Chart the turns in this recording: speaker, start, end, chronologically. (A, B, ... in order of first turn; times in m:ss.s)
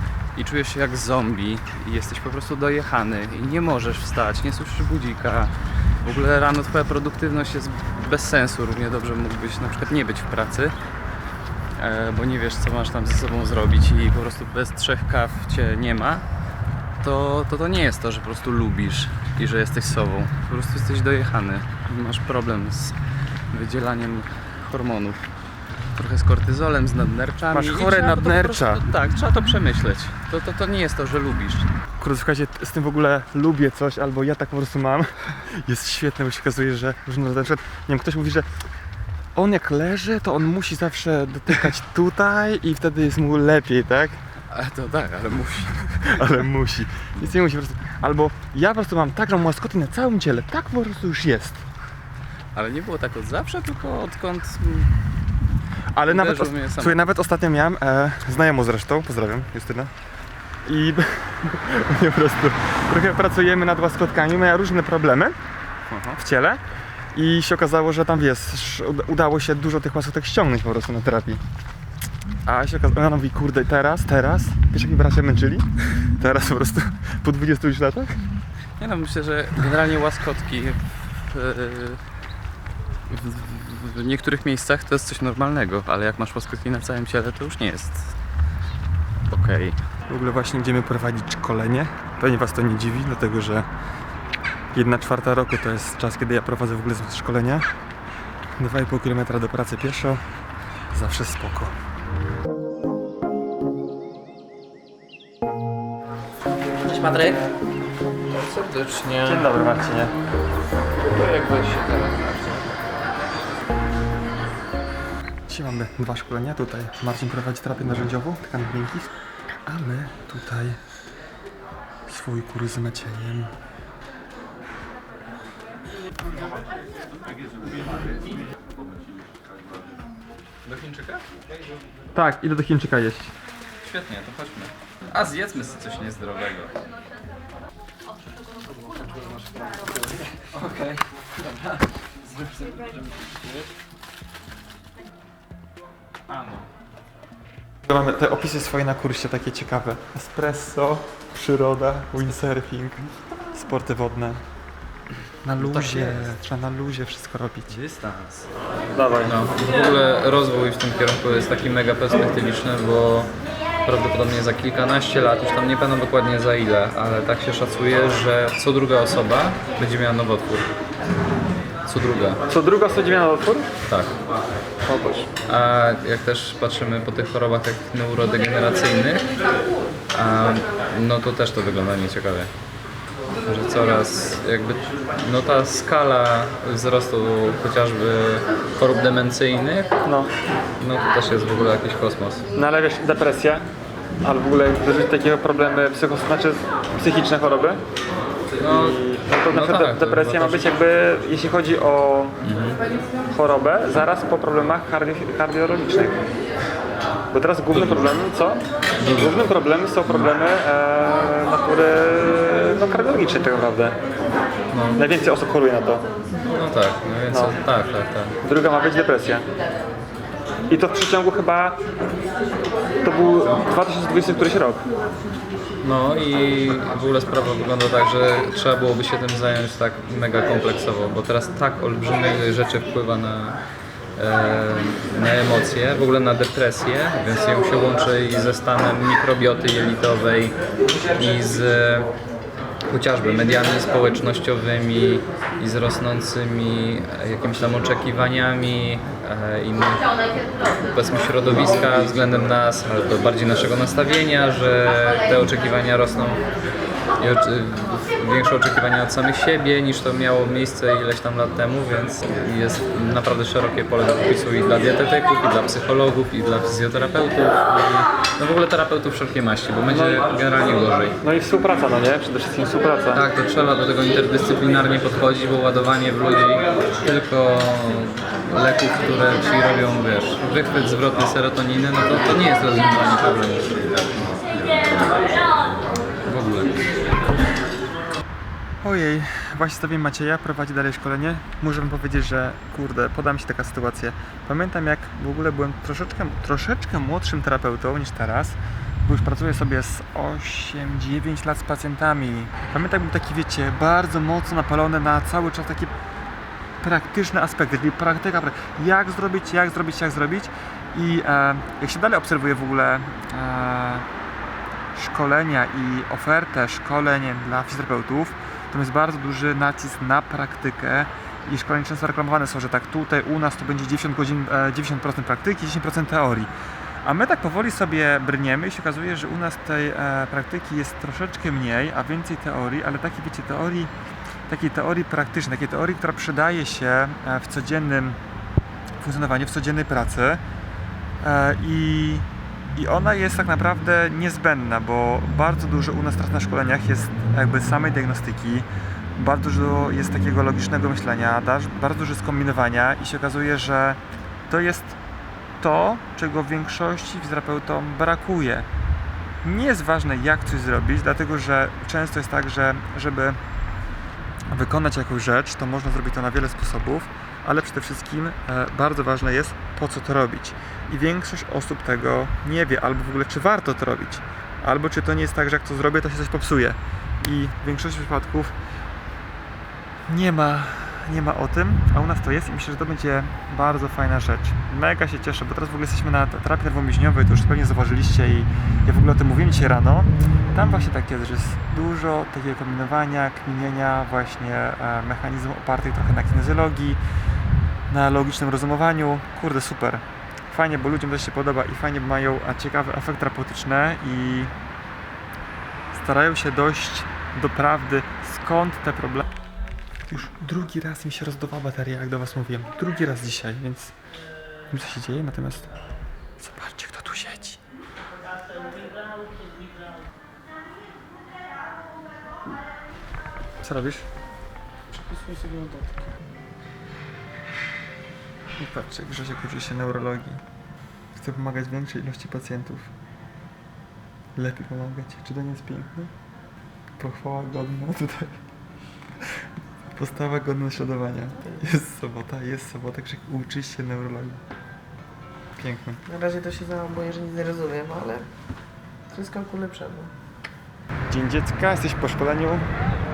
0:00.3-0:10.8 A
0:11.8-0:16.2 A
0:17.0-0:23.0 A
0:23.5-0:25.3 A
0:25.9-0:31.7 A
0:27.5-0:28.8 B
0:32.0-0:38.5 B
0:39.4-0:44.2 B
0:44.5-0:46.3 A
0:46.0-0:51.6 B
0:52.5-0:55.0 A
0:55.9-0:59.9 B
0:56.0-0:57.0 A
1:00.6-1:05.4 B
1:05.9-1:06.2 A
1:06.2-1:11.4 B
1:12.4-1:18.2 B
1:18.8-1:22.0 A
1:23.1-1:28.2 A
1:29.3-1:29.8 A
1:30.1-1:33.6 B
1:34.7-1:37.6 B
1:38.6-1:40.2 B
1:40.9-1:41.7 B
1:46.8-1:47.4 A
1:48.3-1:49.4 A
1:49.2-1:50.2 B
1:51.0-1:52.7 A
1:55.5-1:59.1 B
1:59.6-2:00.8 B
2:02.1-2:03.5 B
2:10.6-2:11.2 A
2:12.1-2:13.3 B
2:13.8-2:16.7 A
2:19.1-2:21.8 A
2:22.3-2:23.6 A
2:26.3-2:26.6 A
2:27.9-2:34.4 B
2:35.4-2:37.8 B
2:35.6-2:36.3 A
2:37.7-2:38.5 A
2:38.9-2:39.3 B
2:39.2-2:43.3 A
2:43.8-2:50.7 A
2:51.8-2:52.4 A
2:52.5-2:53.7 B
2:53.8-2:54.2 A
2:54.8-2:55.3 B
2:55.4-2:59.3 A
3:00.1-3:02.5 A
3:03.4-3:09.9 A
3:10.0-3:10.3 B
3:10.8-3:12.4 A
3:12.5-3:13.6 B
3:14.2-3:17.8 B
3:18.6-3:20.9 A
3:18.6-3:22.4 B
3:22.4-3:22.8 A
3:23.3-3:26.2 B
3:27.3-3:34.0 B
3:27.7-3:28.2 A
3:29.0-3:30.3 A
3:34.7-3:35.0 A
3:35.0-3:36.0 B
3:36.4-3:38.4 A
3:37.3-3:37.6 B
3:38.4-3:39.4 B
3:40.7-3:41.8 B
3:43.0-3:44.8 B
3:45.8-3:53.6 A
3:54.2-4:00.6 A
4:01.1-4:02.1 A
4:02.9-4:16.4 A
4:17.2-4:31.2 A
4:29.9-4:30.4 B
4:31.2-4:33.2 B
4:33.1-4:45.0 A
4:46.2-4:46.8 A
4:48.8-5:05.9 B
5:06.8-5:14.1 B
5:14.9-5:26.5 B
5:27.0-5:33.9 B
5:34.5-5:38.2 B
5:39.0-5:40.4 B
5:41.2-5:55.0 B
5:55.6-5:58.7 B
5:59.4-6:03.4 B
6:04.5-6:18.5 B
6:20.1-6:37.0 B
6:37.9-6:44.5 B
6:45.9-6:49.3 B
6:50.1-6:53.9 B
6:54.7-6:55.7 B
6:56.4-6:57.6 B
7:03.6-7:04.0 B
7:05.2-7:05.8 C
7:08.6-7:10.4 B
7:11.1-7:12.9 B
7:14.3-7:16.1 B
7:17.0-7:18.3 B
7:19.9-7:24.4 B
7:25.6-7:26.0 B
7:26.0-7:28.3 C
7:29.1-7:30.1 C
7:31.1-7:32.7 B